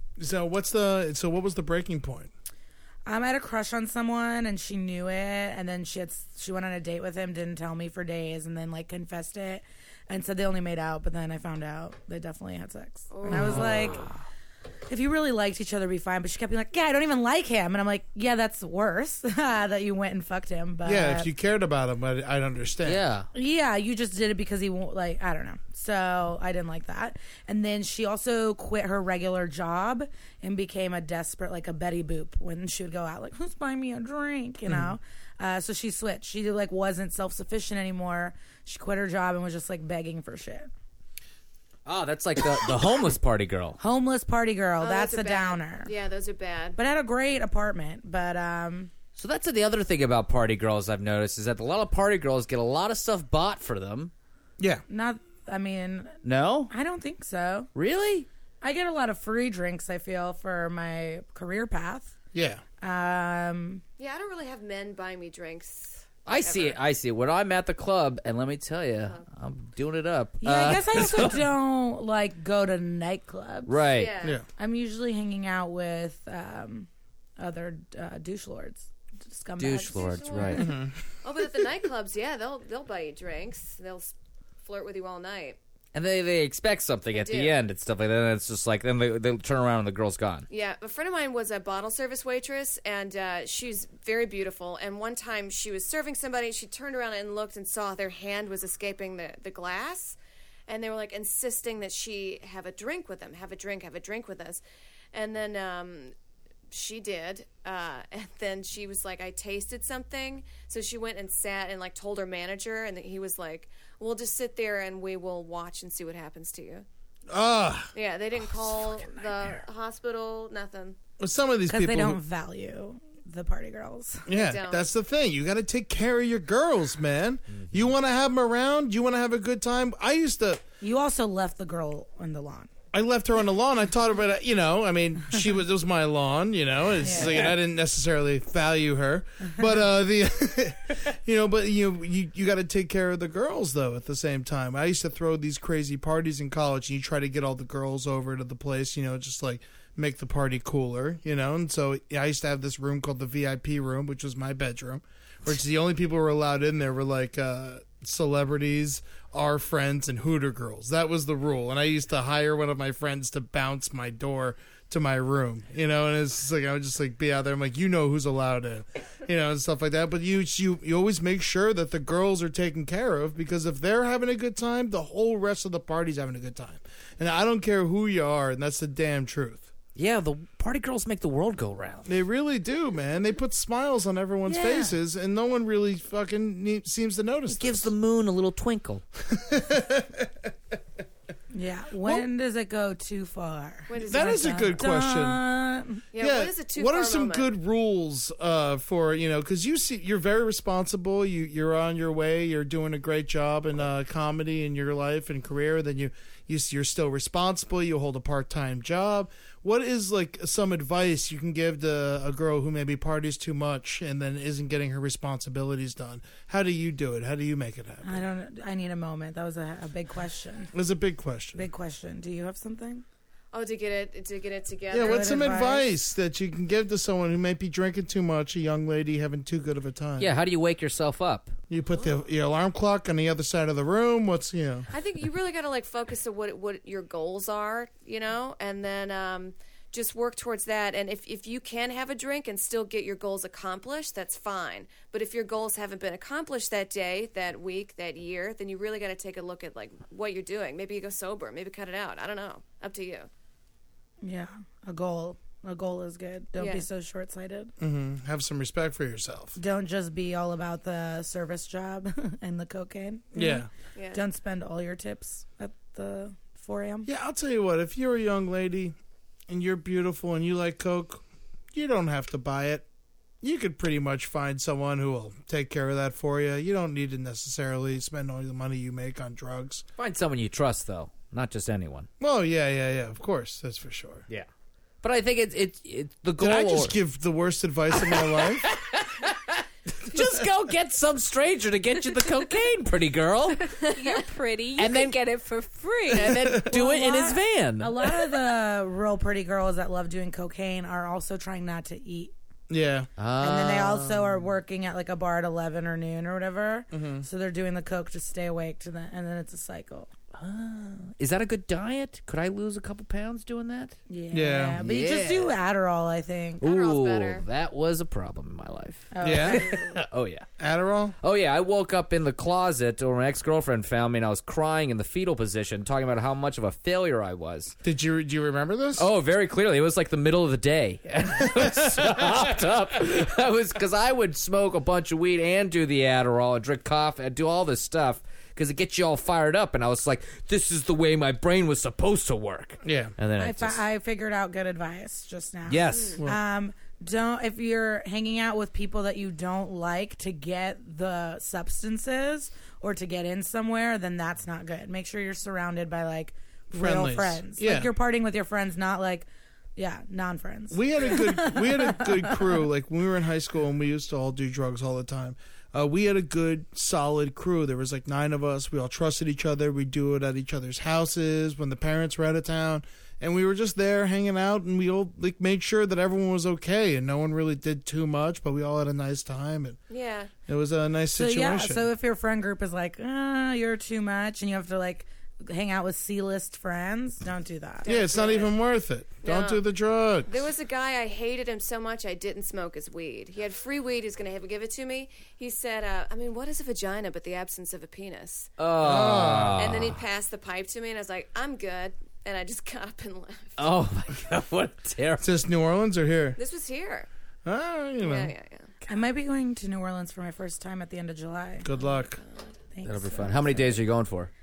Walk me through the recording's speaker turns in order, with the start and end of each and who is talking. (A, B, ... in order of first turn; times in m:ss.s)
0:00.2-0:02.3 A
0:03.0-0:14.1 B
0:13.1-0:13.9 C
0:13.3-0:14.0 A
0:14.9-0:21.3 B
0:20.8-0:23.0 A
0:22.8-0:23.3 D
0:23.3-0:40.7 B
0:34.7-0:34.9 A
0:41.8-0:43.8 D
0:43.8-0:45.9 B
0:44.8-0:46.8 C
0:46.8-0:48.9 B
0:49.2-0:54.1 D
0:54.6-0:54.8 A
0:54.9-0:56.2 B
0:56.2-0:56.7 D
0:56.7-0:57.7 B
0:57.7-0:58.3 D
0:58.6-1:02.1 B
1:02.3-1:02.6 A
1:02.8-1:03.8 B
1:04.0-1:06.8 C
1:06.2-1:11.4 D
1:10.4-1:13.8 B
1:13.6-1:14.1 D
1:13.9-1:14.4 C
1:14.6-1:20.7 B
1:19.6-1:20.7 D
1:19.9-1:25.6 C
1:20.6-1:21.0 A
1:25.9-1:30.5 D
1:27.1-1:27.6 C
1:30.5-1:44.6 C
1:45.1-1:46.1 C
1:46.7-1:56.8 C
1:57.3-1:57.9 A
1:57.9-2:01.0 C
2:01.2-2:02.2 A
2:01.7-2:04.3 B
2:04.3-2:10.6 A
2:04.3-2:04.8 C
2:10.8-2:12.7 B
2:12.9-2:59.7 A
2:17.0-2:17.4 B
2:59.9-3:02.1 D
3:02.0-3:07.9 A
3:04.4-3:04.9 D
3:07.5-3:09.0 D
3:09.2-3:10.5 A
3:11.5-3:16.0 B
3:13.9-3:14.6 C
3:14.0-3:15.4 A
3:16.1-3:17.5 C
3:16.2-3:38.2 A
3:38.0-3:40.7 B
3:40.7-3:41.6 A
3:41.6-3:43.0 B
3:43.5-3:45.4 C
3:44.9-3:50.3 A
3:45.0-3:45.9 B
3:50.2-3:51.5 D
3:51.7-3:54.9 A
3:54.9-4:13.3 C
4:14.2-4:17.7 B
4:16.6-4:16.8 C
4:17.8-4:19.6 A
4:19.6-4:27.1 B
4:23.3-4:23.7 A
4:23.9-4:24.2 C
4:27.0-4:29.0 A
4:29.5-4:32.9 A
4:33.4-4:39.8 A
4:40.0-4:42.1 D
4:42.2-4:44.2 A
4:45.0-4:47.0 D
4:46.4-4:48.6 A
4:47.9-4:53.7 D
4:53.7-4:56.6 E
4:54.8-4:55.2 D
4:56.1-4:58.1 D
4:56.6-5:02.3 B
5:02.7-5:03.1 A
5:03.2-5:04.3 D
5:03.4-5:10.1 B
5:06.9-5:07.2 A
5:10.3-5:14.0 D
5:14.1-5:16.6 B
5:14.3-5:14.8 A
5:14.8-5:15.5 D
5:16.6-5:17.4 C
5:16.6-5:20.5 D
5:19.1-5:19.7 B
5:19.2-5:19.7 A
5:19.6-5:20.0 C
5:20.6-5:21.1 A
5:21.2-5:27.7 D
5:27.8-5:29.0 A
5:29.0-5:43.8 D
5:42.8-5:43.1 A
5:43.4-6:02.4 B
5:45.7-5:46.2 D
5:45.9-5:46.2 C
5:56.7-5:57.9 A
6:00.7-6:19.8 A
6:19.9-6:20.3 C
6:20.5-6:21.8 A
6:21.1-6:27.9 B
6:27.8-6:28.5 C
6:27.8-6:30.3 A
6:29.2-6:29.6 C
6:30.2-6:38.5 C
6:38.6-6:40.0 D
6:38.8-6:39.9 A
6:39.6-6:43.7 C
6:43.6-6:45.3 D
6:45.2-6:46.4 A
6:46.4-6:47.1 C
6:47.4-6:48.3 A
6:48.0-6:48.8 C
6:48.9-6:51.7 B
6:51.6-6:52.2 A
6:51.8-6:52.4 C
6:52.7-6:53.8 B
6:52.8-6:54.3 D